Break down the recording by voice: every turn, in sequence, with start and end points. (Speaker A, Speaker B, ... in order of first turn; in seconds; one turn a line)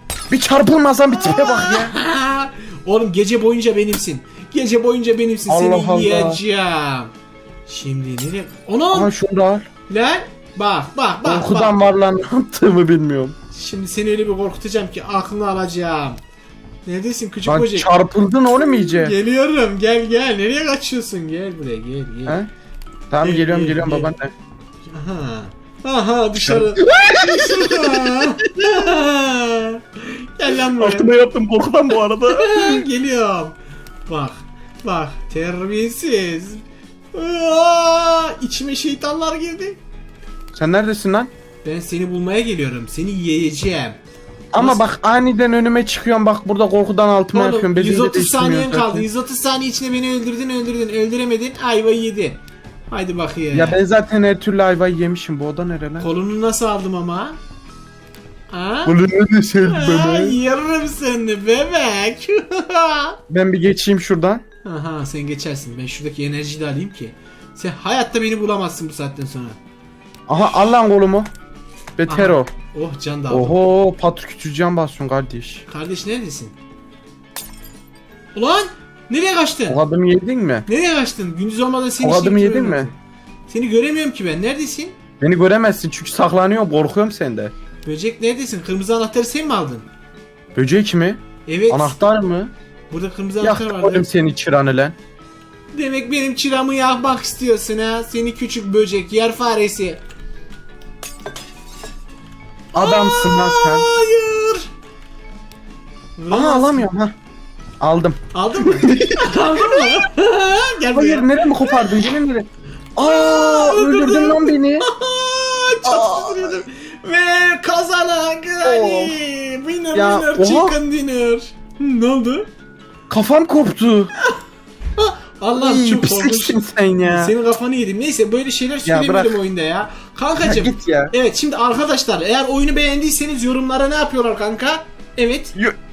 Speaker A: 0.3-1.9
Speaker B: 1.1-7.1
Speaker A: 5.5-6.4
Speaker B: 7.7-9.1
Speaker A: 8.9-9.7
Speaker B: 9.9-11.8
Speaker A: 11.2-13.3
Speaker B: 13.5-16.2
Speaker B: 16.8-17.9
Speaker A: 17.4-19.1
Speaker B: 18.7-22.4
Speaker A: 23.1-24.3
Speaker B: 23.2-24.1
Speaker B: 24.9-31.1
Speaker A: 26.4-28.8
Speaker A: 30.8-32.9
Speaker B: 32.3-39.8
Speaker A: 40.5-41.3
Speaker B: 41.6-44.0
Speaker A: 44.5-49.0
Speaker B: 44.5-44.9
Speaker B: 47.3-53.8
Speaker A: 53.5-56.1
Speaker B: 56.0-57.4
Speaker B: 58.5-59.0
Speaker A: 58.8-60.4
Speaker B: 59.6-63.2
Speaker A: 63.3-64.4
Speaker B: 64.6-69.6
Speaker A: 70.3-71.3
Speaker B: 70.4-70.8
Speaker A: 72.0-72.5
Speaker B: 72.1-73.6
Speaker A: 73.3-75.6
Speaker B: 75.7-76.5
Speaker B: 78.3-79.8
Speaker A: 79.7-80.7
Speaker B: 80.7-83.0
Speaker A: 82.0-82.9
Speaker B: 83.5-85.0
Speaker A: 85.2-87.5
Speaker B: 87.8-89.8
Speaker A: 90.5-92.5
Speaker B: 91.5-92.0
Speaker B: 92.9-94.1
Speaker A: 93.4-95.0
Speaker B: 95.7-100.0
Speaker A: 102.7-103.9
Speaker B: 102.7-104.7
Speaker B: 106.2-106.9
Speaker A: 106.3-107.1
Speaker A: 107.8-110.0
Speaker B: 108.3-112.0
Speaker A: 110.9-114.8
Speaker B: 113.0-122.5
Speaker A: 115.8-116.6
Speaker A: 118.6-119.2
Speaker A: 119.9-120.8
Speaker A: 123.1-124.1
Speaker B: 125.0-135.5
Speaker A: 125.5-127.3
Speaker A: 128.8-129.4
Speaker A: 130.4-131.1